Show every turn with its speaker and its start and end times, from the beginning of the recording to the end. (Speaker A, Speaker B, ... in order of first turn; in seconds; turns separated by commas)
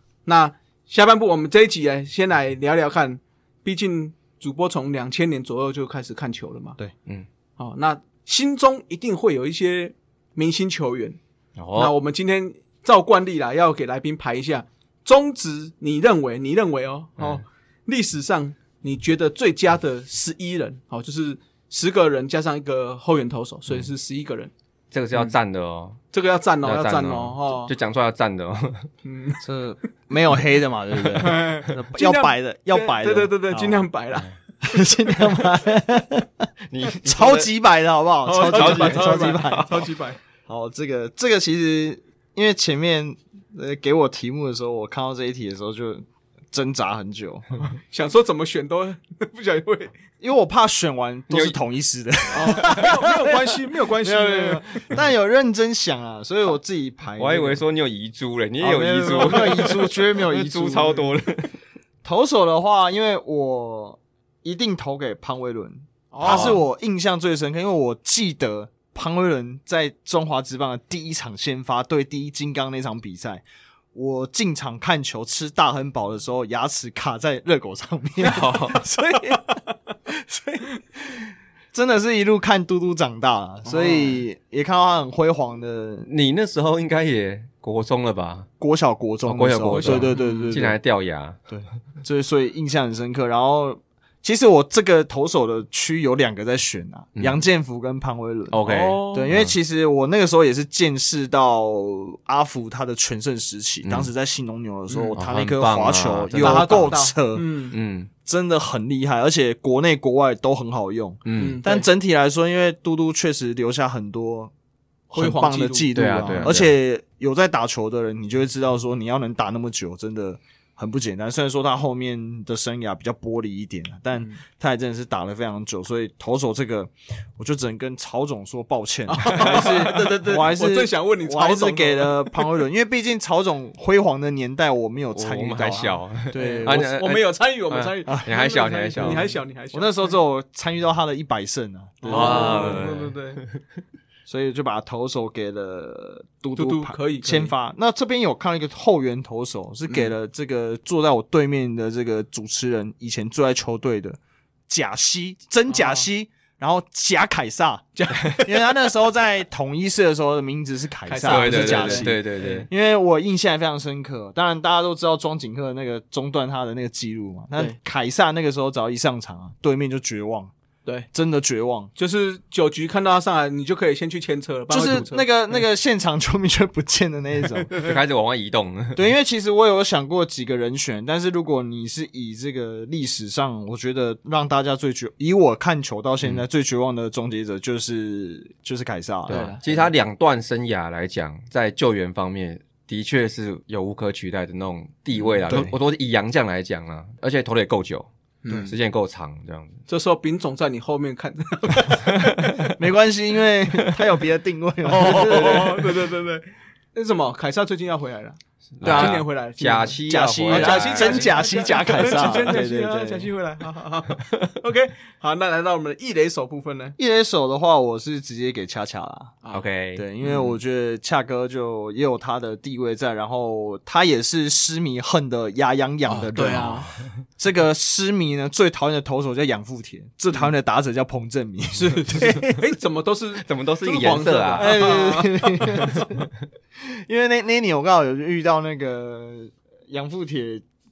Speaker A: 0.3-6.8, Speaker A: 7.6-11.2, Speaker B: 11.6-11.9, Speaker A: 11.8-24.5, Speaker B: 24.9-26.0, Speaker A: 26.1-27.7, Speaker B: 26.6-28.9, Speaker A: 29.0-29.4, Speaker C: 29.4-33.9, Speaker A: 31.2-34.3, Speaker C: 34.6-36.5, Speaker B: 36.7-37.5, Speaker C: 37.0-39.9, Speaker A: 38.2-40.2, Speaker B: 38.4-39.6, Speaker C: 40.5-47.5, Speaker A: 47.9-49.9, Speaker C: 50.2-57.6, Speaker B: 51.3-51.6, Speaker A: 52.3-54.8, Speaker B: 57.2-61.5, Speaker C: 58.6-61.1, Speaker A: 59.1-59.6, Speaker C: 62.0-86.1, Speaker A: 66.1-66.6, Speaker B: 66.2-66.6, Speaker B: 78.2-78.8, Speaker A: 83.7-84.2, Speaker B: 86.1-88.5, Speaker C: 88.6-90.8, Speaker B: 89.3-91.4, Speaker A: 89.7-90.6, Speaker C: 91.5-107.5, Speaker B: 97.2-97.4, Speaker B: 98.5-99.5, Speaker A: 98.7-99.3, Speaker B: 103.8-104.1, Speaker A: 104.9-105.2, Speaker B: 105.2-106.9, Speaker A: 106.4-107.8, Speaker B: 107.7-108.1, Speaker C: 108.2-114.5, Speaker B: 111.2-111.6, Speaker A: 111.3-111.9, Speaker C: 115.1-136.9, Speaker A: 115.2-116.6, Speaker B: 115.9-116.7, Speaker A: 124.1-124.4, Speaker A: 129.1-132.4, Speaker B: 129.4-130.2, Speaker B: 135.1-139.3, Speaker A: 136.3-140.2, Speaker C: 138.1-138.3, Speaker C: 139.0-142.9, Speaker A: 142.0-143.4, Speaker B: 142.1-143.5, Speaker C: 144.3-170.5, Speaker A: 146.6-147.5, Speaker A: 149.9-150.1, Speaker A: 155.7-156.1, Speaker A: 158.0-158.7, Speaker A: 161.1-162.7, Speaker B: 161.3-162.7, Speaker C: 171.1-171.9, Speaker A: 172.0-175.6, Speaker C: 174.7-177.7, Speaker A: 177.5-177.9, Speaker B: 177.8-179.1, Speaker C: 178.9-189.5, Speaker B: 189.3-198.1, Speaker A: 189.3-189.9, Speaker A: 195.2-195.4, Speaker C: 195.5-195.7, Speaker A: 198.4-198.7, Speaker B: 198.7-199.8, Speaker A: 199.9-202.0, Speaker B: 202.1-202.8, Speaker C: 202.7-205.8, Speaker A: 204.9-217.0, Speaker B: 204.9-205.8, Speaker B: 208.8-211.4, Speaker C: 208.8-209.2, Speaker C: 210.1-213.3, Speaker B: 212.0-212.6, Speaker C: 217.0-219.4, Speaker B: 219.5-220.1, Speaker C: 219.9-232.6, Speaker A: 220.2-220.5, Speaker A: 226.1-226.9, Speaker A: 231.7-236.0, Speaker B: 233.4-235.0, Speaker C: 234.6-236.3, Speaker B: 235.8-236.0, Speaker C: 236.8-240.6